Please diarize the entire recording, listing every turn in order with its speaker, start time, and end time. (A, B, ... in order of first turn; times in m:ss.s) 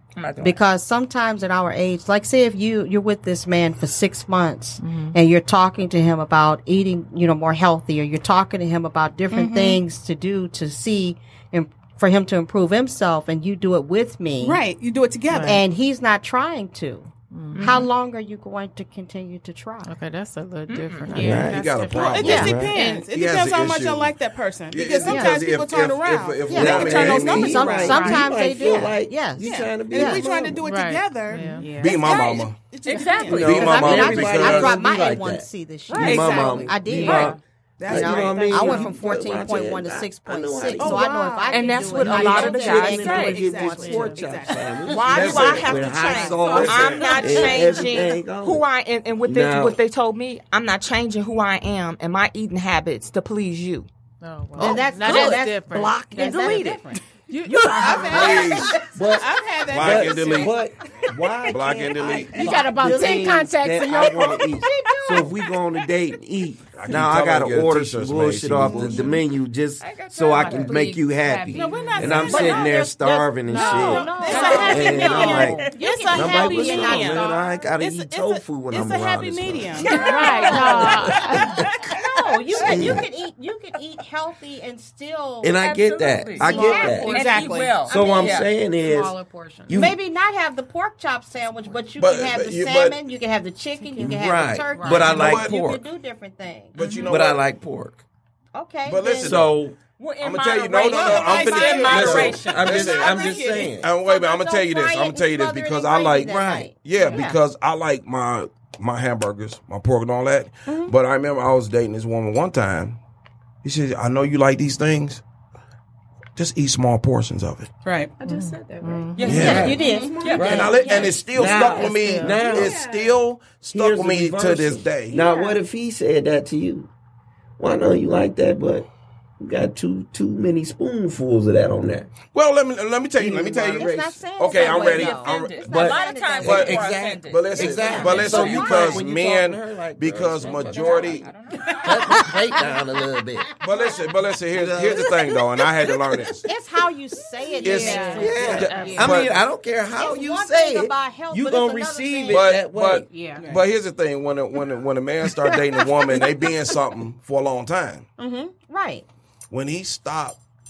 0:00.2-0:00.6 A
0:00.4-0:14.6 B
0:04.8-0:05.2 C
0:09.3-0:09.8 D
0:14.4-0:15.6 D
0:15.3-0:15.6 C
0:15.4-0:17.1 B
0:17.3-0:17.8 C
0:17.6-0:19.9 B
0:19.8-0:22.9 C
0:20.7-0:21.5 A
0:21.1-0:21.6 E
0:21.3-0:24.1 F
0:21.9-0:33.9 D
0:22.2-0:22.6 B
0:22.2-0:22.7 E
0:22.7-0:23.0 G
0:24.7-0:27.8 F
0:25.0-0:25.4 B
0:26.5-0:30.6 B
0:26.5-0:30.5 E
0:30.6-0:31.6 C
0:31.6-0:32.1 G
0:31.8-0:32.6 F
0:32.8-0:34.1 A
0:33.3-0:41.3 E
0:33.4-0:34.8 F
0:33.6-0:44.3 B
0:36.0-0:39.0 D
0:37.0-0:37.4 A
0:40.8-0:47.6 D
0:41.5-0:43.5 A
0:41.9-0:48.6 E
0:43.9-0:44.2 C
0:44.8-0:53.9 A
0:45.1-0:47.0 F
0:49.2-0:49.8 E
0:54.2-0:58.7 C
0:54.6-0:56.9 B
0:54.6-0:58.1 A
0:57.8-0:58.9 F
0:57.8-0:58.8 B
0:58.8-1:20.0 E
0:59.1-1:00.5 D
0:59.7-1:00.6 F
1:01.4-1:02.5 F
1:01.7-1:03.5 B
1:02.3-1:04.4 C
1:04.6-1:05.2 B
1:04.7-1:05.2 A
1:06.7-1:09.1 F
1:09.8-1:10.9 A
1:10.2-1:12.7 G
1:11.5-1:12.9 D
1:12.0-1:12.2 A
1:12.3-1:17.4 B
1:13.5-1:14.9 C
1:13.5-1:17.2 G
1:14.0-1:20.9 D
1:19.9-1:21.0 A
1:20.0-1:21.5 C
1:20.3-1:20.9 G
1:21.0-1:21.7 E
1:21.9-1:25.6 B
1:22.6-1:23.1 E
1:25.4-1:27.2 E
1:25.5-1:28.5 A
1:26.4-1:29.9 G
1:26.5-1:26.9 C
1:27.0-1:27.8 D
1:27.9-1:29.2 E
1:29.7-1:30.0 E
1:29.7-1:36.8 B
1:32.0-1:33.0 F
1:34.0-1:35.8 E
1:34.7-1:35.3 G
1:35.1-1:35.6 F
1:36.8-1:37.5 F
1:36.8-1:37.1 D
1:37.1-1:38.0 E
1:38.5-1:39.4 B
1:38.9-1:39.7 F
1:39.2-1:39.8 E
1:40.0-1:42.8 A
1:40.2-1:53.0 F
1:40.8-1:43.8 D
1:41.9-1:43.9 E
1:43.9-1:47.4 B
1:46.3-1:46.7 E
1:50.7-1:50.9 B
1:53.6-1:55.2 F
1:56.4-1:57.7 F
1:57.8-1:58.1 D
1:58.2-2:03.2 G
1:58.2-1:59.6 C
1:59.2-2:01.1 A
1:59.3-1:59.8 F
1:59.3-2:00.2 B
1:59.4-2:02.8 E
2:00.4-2:05.2 F
2:01.8-2:02.4 C
2:03.7-2:06.9 E
2:05.1-2:05.6 G
2:07.6-2:08.9 E
2:09.4-2:12.1 E
2:12.3-2:15.7 F
2:13.2-2:14.2 E
2:13.2-2:16.9 B
2:14.5-2:19.0 A
2:15.6-2:23.6 E
2:16.4-2:21.3 F
2:17.9-2:18.2 B
2:20.4-2:22.4 A
2:23.6-2:26.4 F
2:24.5-2:25.2 E
2:26.4-2:28.8 B
2:27.6-2:29.4 G
2:27.6-2:29.4 F
2:27.7-2:29.1 C
2:28.2-2:33.1 E
2:29.9-2:32.6 B
2:32.3-2:38.1 F
2:33.1-2:33.5 G
2:33.4-2:33.6 D
2:38.2-2:39.1 B
2:39.5-2:40.4 F